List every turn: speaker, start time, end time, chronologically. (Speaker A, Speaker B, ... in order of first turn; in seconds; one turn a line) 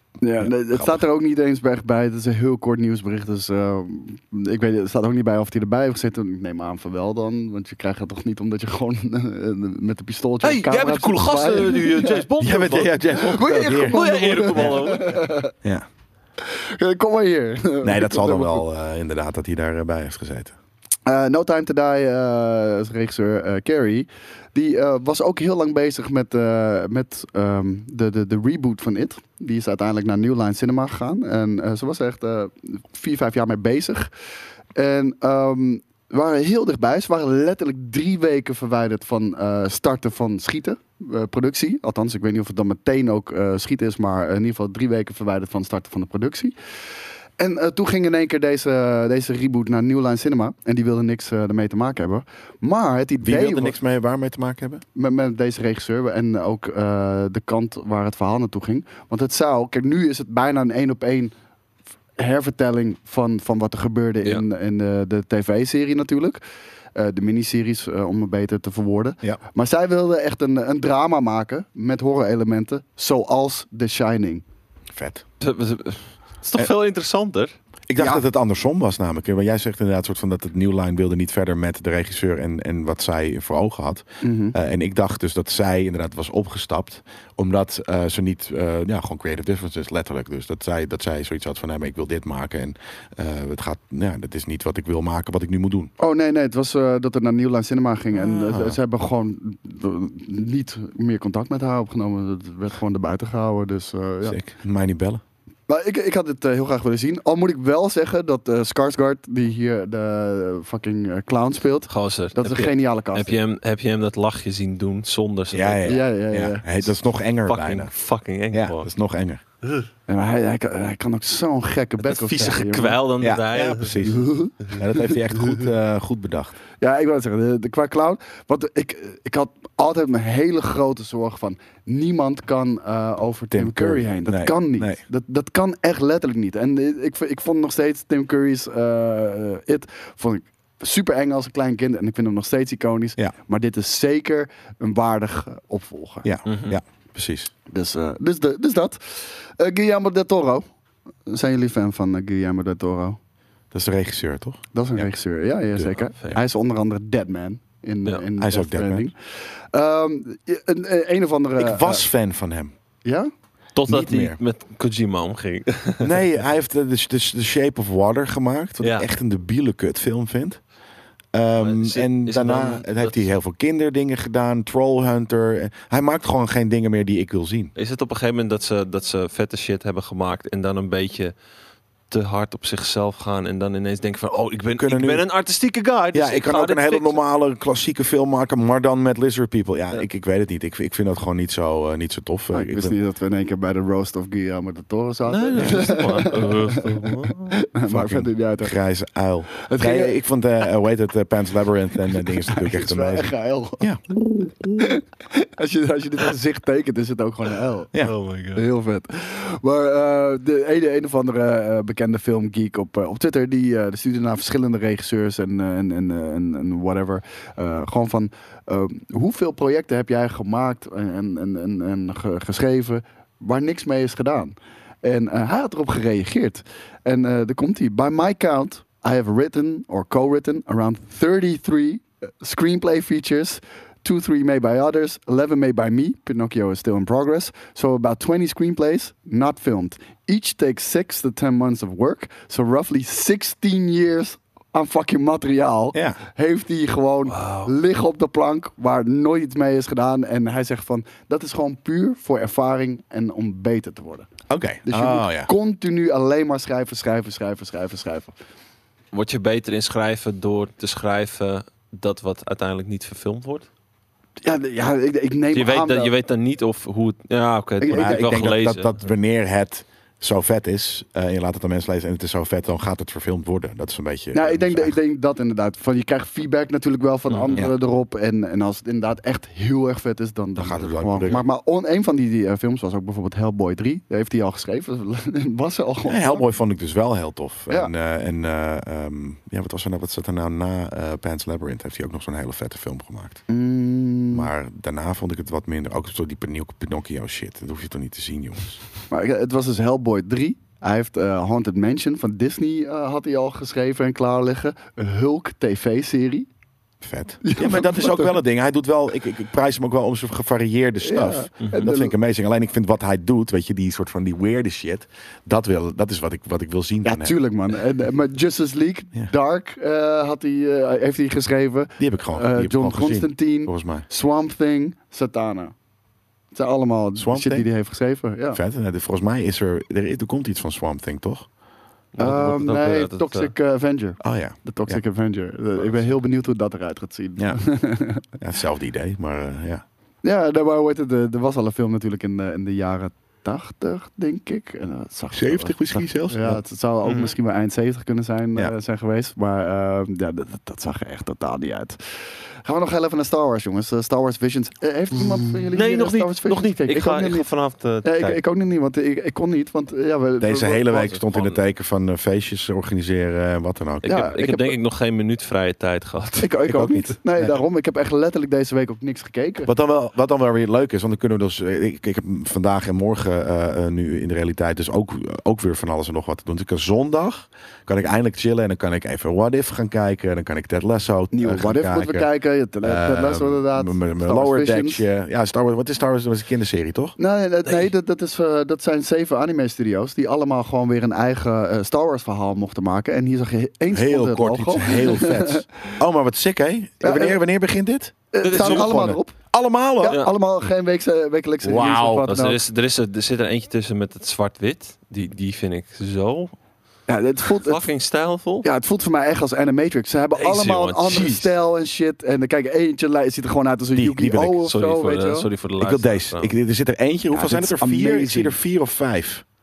Speaker A: 0.2-12.3
Speaker B: 0.4-1.0
Speaker C: 10.4-13.0
Speaker B: 12.4-14.8
Speaker A: 13.1-15.5
Speaker C: 13.8-15.2
Speaker A: 16.4-18.6
Speaker B: 17.8-20.5
Speaker A: 21.1-34.1
Speaker A: 34.7-46.5
Speaker A: 47.4-53.7
Speaker B: 53.2-54.8
Speaker A: 54.9-61.3
Speaker A: 62.2-66.4
Speaker A: 66.9-74.4
Speaker B: 74.9-75.2
Speaker C: 75.4-77.5
Speaker B: 77.9-95.9
Speaker A: 78.0-78.2
Speaker A: 84.2-84.5
Speaker A: 96.0-104.4
Speaker B: 98.4-98.8
Speaker B: 104.2-105.2
Speaker A: 105.7-113.4
Speaker C: 111.9-116.0
Speaker B: 115.5-117.9
Speaker A: 115.8-116.7
Speaker C: 117.5-118.9
Speaker B: 118.5-119.4
Speaker A: 120.1-123.0
Speaker C: 122.0-124.1
Speaker B: 123.2-126.6
Speaker A: 124.0-125.2
Speaker A: 126.8-146.3
Speaker B: 133.5-135.0
Speaker B: 146.2-147.5
Speaker C: 146.4-146.8
Speaker A: 147.7-150.6
Speaker A: 151.2-153.2
Speaker B: 153.7-155.1
Speaker A: 154.7-162.1
Speaker B: 158.4-159.1
Speaker B: 161.6-162.7
Speaker A: 163.0-163.3
Speaker C: 163.8-166.1
Speaker B: 163.9-164.4
Speaker B: 166.0-170.6
Speaker C: 168.8-169.1
Speaker B: 171.3-177.7
Speaker C: 171.6-173.3
Speaker C: 177.8-181.3
Speaker C: 182.1-187.2
Speaker B: 184.8-185.2
Speaker B: 186.1-192.9
Speaker A: 192.5-198.7
Speaker C: 195.3-197.5
Speaker B: 197.9-204.0
Speaker A: 199.6-200.2
Speaker A: 202.2-207.9
Speaker C: 208.0-208.6
Speaker A: 208.5-254.3
Speaker B: 245.9-246.2
Speaker C: 247.3-247.7
Speaker B: 254.5-255.5
Speaker A: 254.8-258.3
Speaker C: 259.1-263.7
Speaker A: 264.4-266.1
Speaker C: 265.5-269.0
Speaker A: 267.8-268.3
Speaker B: 267.9-274.9
Speaker A: 274.3-286.4
Speaker C: 277.3-277.6
Speaker B: 280.6-281.4
Speaker B: 286.1-293.4
Speaker A: 293.5-294.5
Speaker B: 294.3-298.8
Speaker A: 299.1-306.5
Speaker B: 307.0-317.4
Speaker A: 307.4-308.4
Speaker A: 311.0-312.1
Speaker A: 317.0-325.7
Speaker B: 322.0-324.1
Speaker A: 326.5-328.6
Speaker B: 327.2-327.7
Speaker B: 328.5-331.5
Speaker C: 332.1-333.5
Speaker A: 332.2-338.2
Speaker B: 334.2-335.0
Speaker B: 338.3-339.8
Speaker A: 340.2-352.0
Speaker B: 345.3-346.6
Speaker C: 347.0-347.3
Speaker A: 352.6-357.5
Speaker C: 355.7-358.4
Speaker A: 358.0-361.2
Speaker B: 360.4-364.1
Speaker C: 361.2-361.6
Speaker A: 364.0-364.7
Speaker C: 364.0-366.6
Speaker A: 366.4-369.7
Speaker B: 366.7-367.6
Speaker B: 369.6-382.3
Speaker A: 381.3-385.0
Speaker B: 382.8-387.1
Speaker A: 387.2-395.6
Speaker B: 393.9-400.2
Speaker A: 397.0-397.4
Speaker A: 398.3-399.4
Speaker C: 398.4-399.1
Speaker A: 400.0-402.6
Speaker B: 401.6-402.3
Speaker C: 402.3-406.5
Speaker A: 407.1-407.9
Speaker C: 407.5-408.6
Speaker A: 408.6-415.5
Speaker C: 410.3-411.4
Speaker B: 411.1-411.4
Speaker B: 413.9-414.6
Speaker C: 414.7-416.5
Speaker B: 415.8-419.4
Speaker A: 417.3-418.6